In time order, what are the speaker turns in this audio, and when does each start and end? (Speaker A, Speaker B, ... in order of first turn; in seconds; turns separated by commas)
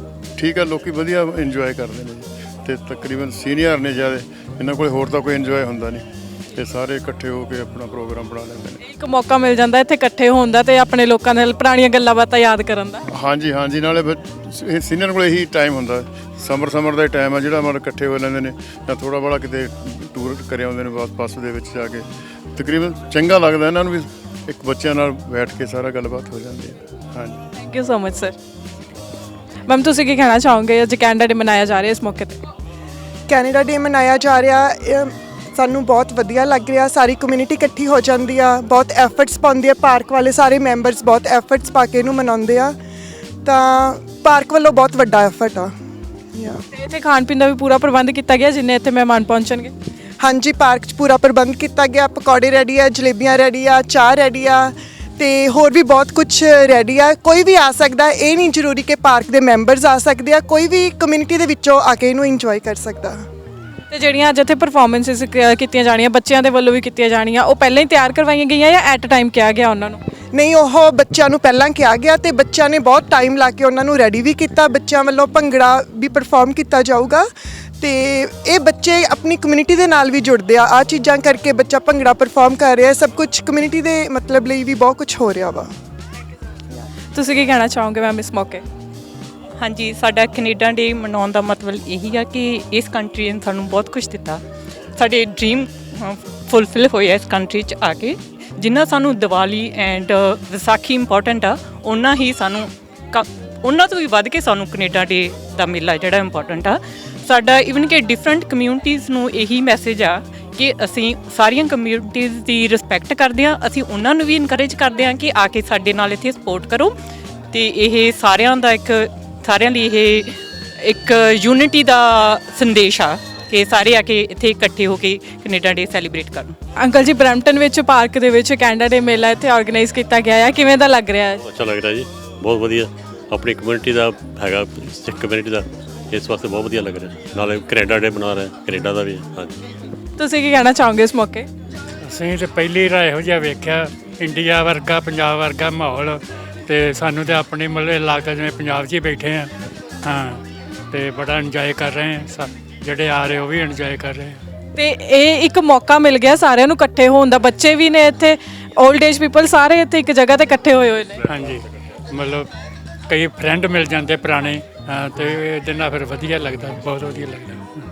Speaker A: 0.4-8.8, Speaker B: 8.8-13.0, Speaker A: 13.1-27.4, Speaker B: 27.6-28.3, Speaker B: 29.7-32.4, Speaker C: 33.3-42.7, Speaker C: 43.4-45.7, Speaker B: 46.7-49.7, Speaker C: 50.2-63.2, Speaker B: 63.9-70.0, Speaker C: 70.3-77.3, Speaker C: 77.8-85.7, Speaker B: 87.1-88.6, Speaker D: 89.6-94.4, Speaker D: 95.0-116.9, Speaker D: 117.5-126.5, Speaker B: 126.8-131.4, Speaker E: 131.5-139.5, Speaker B: 140.2-141.5, Speaker F: 142.0-149.5, Speaker F: 150.0-154.4, Speaker B: 154.8-161.2, Speaker F: 161.2-162.5, Speaker F: 163.1-167.7